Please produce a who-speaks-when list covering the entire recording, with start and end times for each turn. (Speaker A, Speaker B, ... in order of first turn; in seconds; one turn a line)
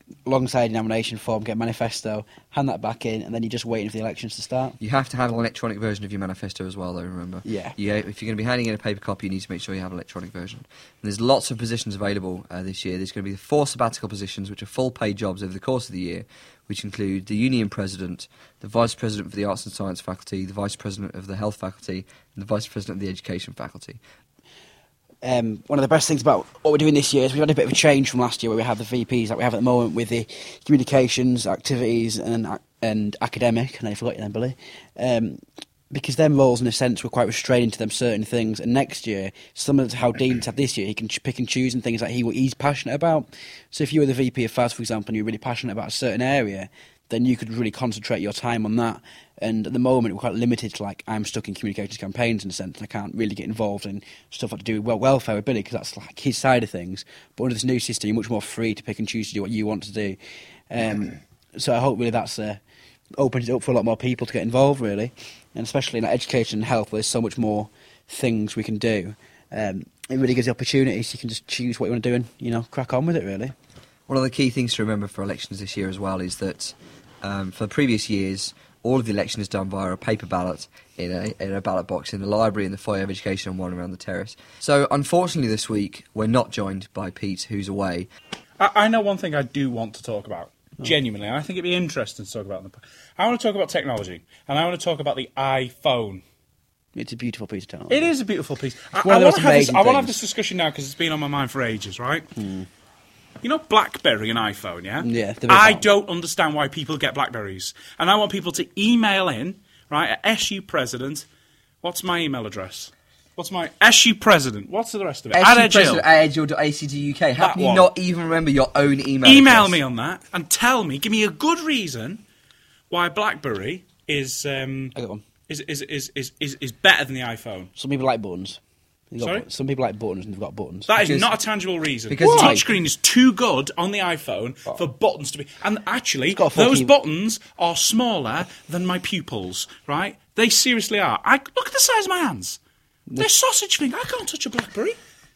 Speaker A: 0.2-4.8
Speaker B: 4.8-24.0
Speaker A: 7.4-7.8
Speaker A: 25.2-60.2
Speaker A: 60.7-62.6
Speaker A: 63.2-73.5
Speaker B: 74.1-88.1
Speaker C: 88.6-96.2
Speaker A: 96.9-98.1
Speaker C: 97.9-102.3
Speaker A: 99.0-100.2
Speaker A: 102.3-102.7
Speaker C: 103.4-111.3
Speaker A: 105.0-105.9
Speaker C: 111.8-116.0
Speaker B: 115.3-119.8
Speaker C: 117.4-117.9
Speaker C: 119.2-122.2
Speaker C: 122.9-124.9
Speaker A: 124.9-125.2
Speaker C: 125.5-127.7
Speaker A: 127.8-128.6
Speaker A: 129.1-130.9
Speaker C: 129.2-129.4
Speaker C: 130.9-142.6
Speaker B: 131.0-131.3
Speaker B: 132.1-132.7
Speaker A: 132.2-132.6
Speaker A: 136.3-136.9
Speaker C: 143.2-145.0